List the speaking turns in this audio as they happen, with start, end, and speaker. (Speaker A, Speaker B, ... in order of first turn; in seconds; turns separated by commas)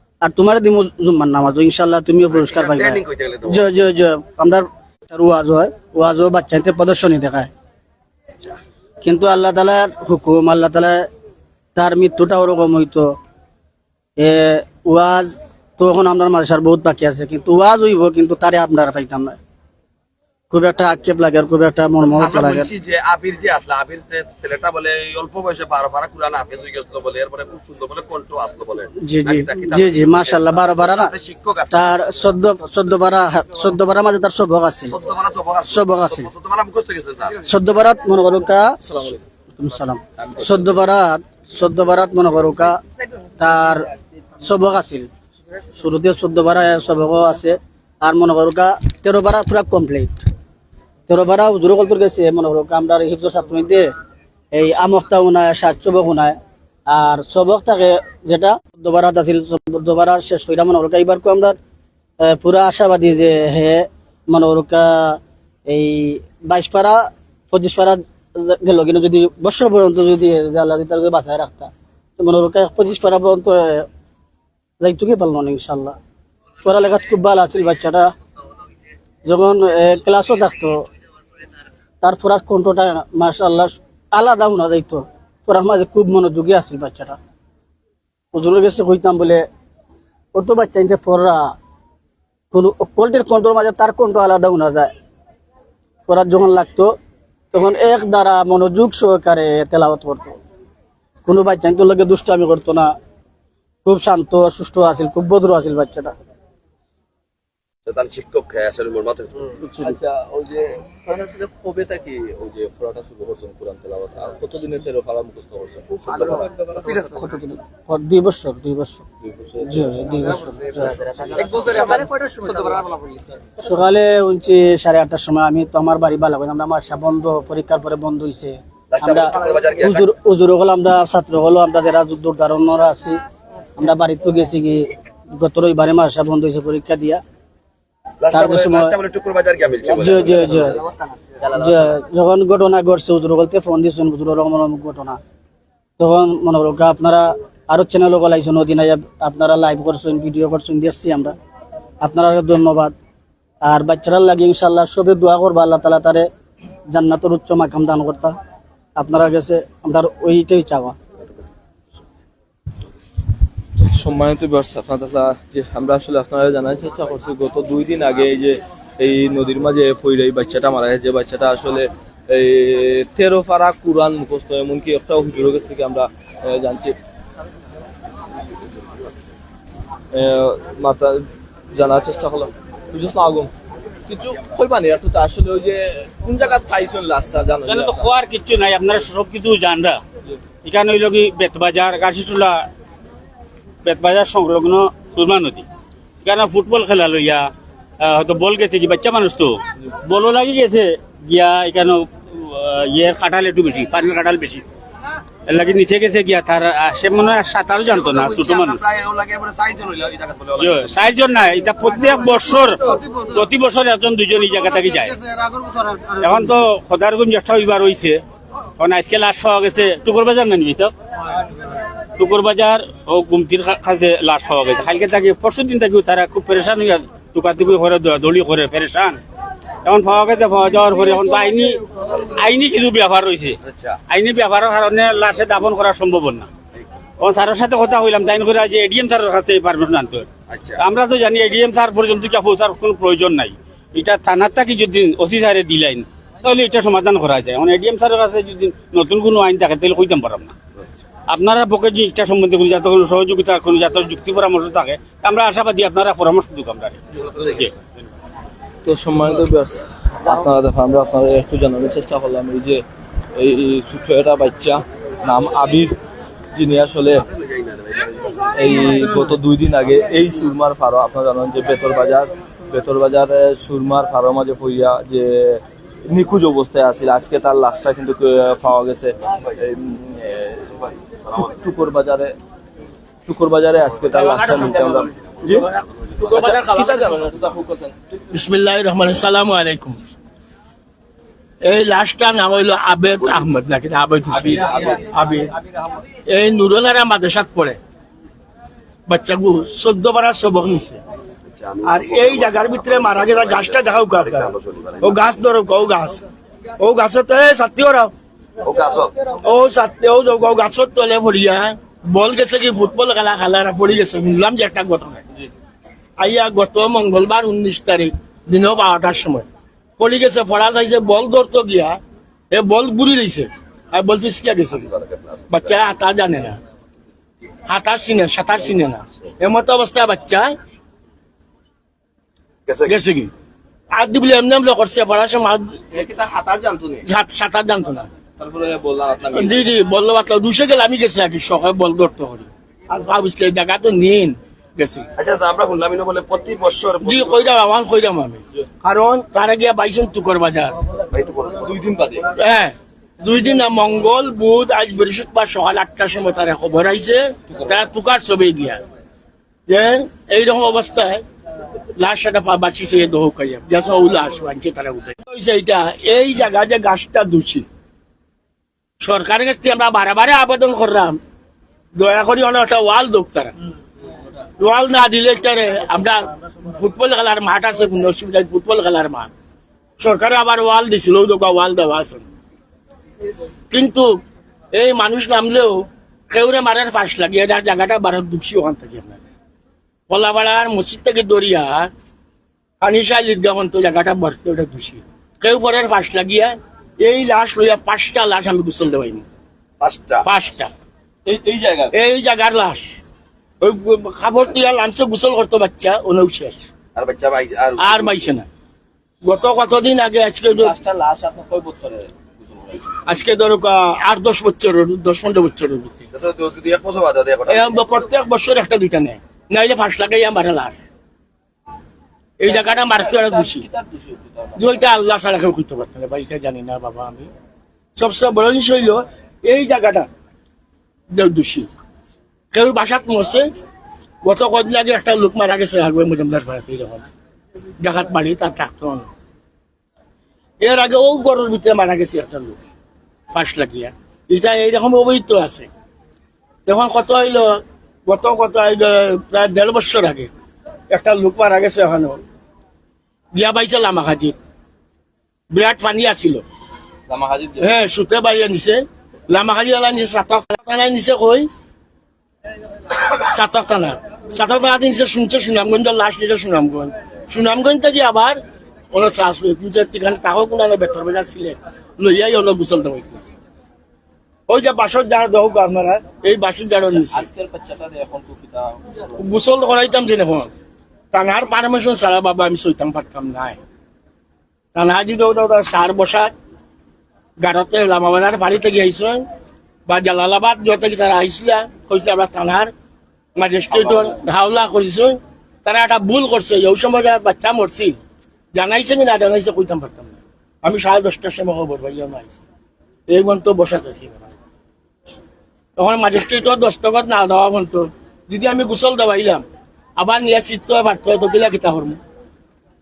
Speaker A: 0.2-7.5, Speaker B: 2.3-3.7, Speaker A: 9.0-11.1, Speaker A: 11.8-13.2, Speaker A: 14.2-19.4, Speaker A: 20.5-22.7, Speaker B: 22.1-32.0, Speaker A: 29.0-31.1, Speaker A: 31.7-35.0, Speaker B: 34.9-37.4, Speaker A: 35.7-36.3, Speaker A: 37.4-38.8, Speaker C: 38.8-39.2, Speaker A: 39.6-42.8, Speaker C: 40.2-40.8, Speaker A: 43.4-43.9, Speaker A: 44.4-45.1, Speaker A: 45.8-50.2, Speaker A: 51.1-53.9, Speaker A: 54.5-61.6, Speaker A: 62.2-73.9, Speaker A: 74.8-76.0, Speaker A: 76.6-78.1, Speaker A: 79.3-80.8, Speaker A: 82.0-87.2, Speaker A: 88.3-89.5, Speaker A: 90.3-91.5, Speaker A: 92.5-94.9, Speaker A: 96.1-96.9, Speaker A: 97.5-100.4, Speaker A: 101.3-102.9, Speaker A: 103.8-106.1, Speaker B: 107.9-109.5, Speaker A: 109.6-110.0, Speaker C: 109.8-117.1, Speaker B: 116.1-116.4, Speaker A: 116.8-119.1, Speaker C: 119.2-122.2, Speaker A: 119.6-121.0, Speaker A: 123.6-133.2, Speaker B: 128.9-130.1, Speaker A: 133.8-137.2, Speaker B: 138.2-140.7, Speaker A: 138.3-138.9, Speaker C: 139.8-141.9, Speaker A: 139.9-140.8, Speaker A: 141.5-145.2, Speaker A: 146.0-151.4, Speaker A: 152.0-152.9, Speaker A: 153.6-156.3, Speaker A: 156.9-158.3, Speaker A: 159.0-161.0, Speaker C: 163.8-176.9, Speaker C: 180.1-183.5, Speaker C: 184.1-188.1, Speaker D: 187.7-190.0, Speaker D: 190.6-192.6, Speaker D: 193.8-195.7, Speaker D: 196.2-197.5, Speaker D: 198.0-204.6, Speaker D: 205.5-208.8, Speaker B: 207.8-211.1, Speaker D: 210.6-215.2, Speaker D: 216.1-218.2, Speaker D: 218.8-220.9, Speaker D: 222.2-229.2, Speaker D: 229.8-231.8, Speaker B: 232.1-232.4, Speaker D: 232.4-233.6, Speaker B: 233.6-234.0, Speaker D: 234.1-236.5, Speaker D: 237.2-240.3, Speaker B: 240.5-240.8, Speaker D: 240.8-250.5, Speaker D: 251.3-257.7, Speaker B: 257.1-257.7, Speaker C: 258.8-262.8, Speaker C: 263.4-265.9, Speaker C: 266.5-267.2, Speaker B: 267.2-268.8, Speaker C: 268.5-280.8, Speaker C: 281.3-282.4, Speaker C: 283.3-285.7, Speaker E: 284.2-287.2, Speaker C: 286.2-288.0, Speaker E: 288.3-290.0, Speaker E: 291.6-295.5, Speaker C: 294.3-295.2, Speaker E: 296.3-297.8, Speaker E: 299.1-301.0, Speaker B: 301.5-305.5, Speaker E: 301.9-306.2, Speaker E: 306.8-308.1, Speaker B: 308.6-309.1, Speaker E: 309.4-315.2, Speaker E: 316.2-319.5, Speaker E: 320.0-322.0, Speaker E: 322.5-324.9, Speaker B: 324.7-325.8, Speaker E: 325.5-326.6, Speaker E: 327.7-330.5, Speaker B: 332.7-333.0, Speaker E: 332.9-333.3, Speaker E: 333.9-335.8, Speaker C: 335.9-337.1, Speaker E: 337.1-338.1, Speaker C: 338.4-339.7, Speaker E: 339.3-345.1, Speaker B: 345.2-347.4, Speaker E: 347.0-350.8, Speaker B: 351.1-352.2, Speaker C: 351.6-352.2, Speaker E: 352.4-358.8, Speaker E: 359.7-361.2, Speaker E: 362.0-367.7, Speaker E: 369.0-371.2, Speaker E: 371.9-373.5, Speaker E: 374.6-379.3, Speaker E: 380.0-382.2, Speaker E: 383.7-384.2, Speaker E: 384.7-389.2, Speaker E: 390.1-391.9, Speaker E: 392.8-399.3, Speaker B: 399.8-400.2, Speaker E: 400.2-400.7, Speaker C: 401.2-401.9, Speaker E: 401.9-403.0, Speaker E: 403.6-406.7, Speaker B: 406.9-408.3, Speaker E: 407.8-408.5, Speaker E: 409.2-410.8, Speaker C: 410.5-413.0, Speaker E: 413.1-416.1, Speaker B: 416.1-417.8, Speaker E: 417.5-420.8, Speaker E: 422.4-423.7, Speaker C: 422.4-424.9, Speaker E: 424.6-427.3, Speaker E: 428.0-430.1, Speaker E: 431.1-431.7, Speaker E: 432.5-433.5, Speaker E: 434.2-437.1, Speaker E: 437.8-439.1, Speaker E: 440.6-442.6, Speaker E: 443.3-445.7, Speaker E: 446.7-450.3, Speaker E: 450.9-452.2, Speaker E: 453.3-454.4, Speaker E: 455.5-456.4, Speaker C: 457.1-457.7, Speaker E: 457.6-461.5, Speaker E: 463.2-468.4, Speaker E: 468.9-473.3, Speaker E: 474.5-477.3, Speaker C: 476.9-479.2, Speaker E: 479.2-480.5, Speaker E: 481.1-483.6, Speaker E: 484.8-486.3, Speaker E: 487.4-489.3, Speaker E: 489.9-492.7, Speaker E: 493.4-498.0, Speaker C: 493.7-494.2, Speaker E: 498.6-502.4, Speaker E: 503.1-504.3, Speaker E: 505.8-509.4, Speaker E: 510.0-512.0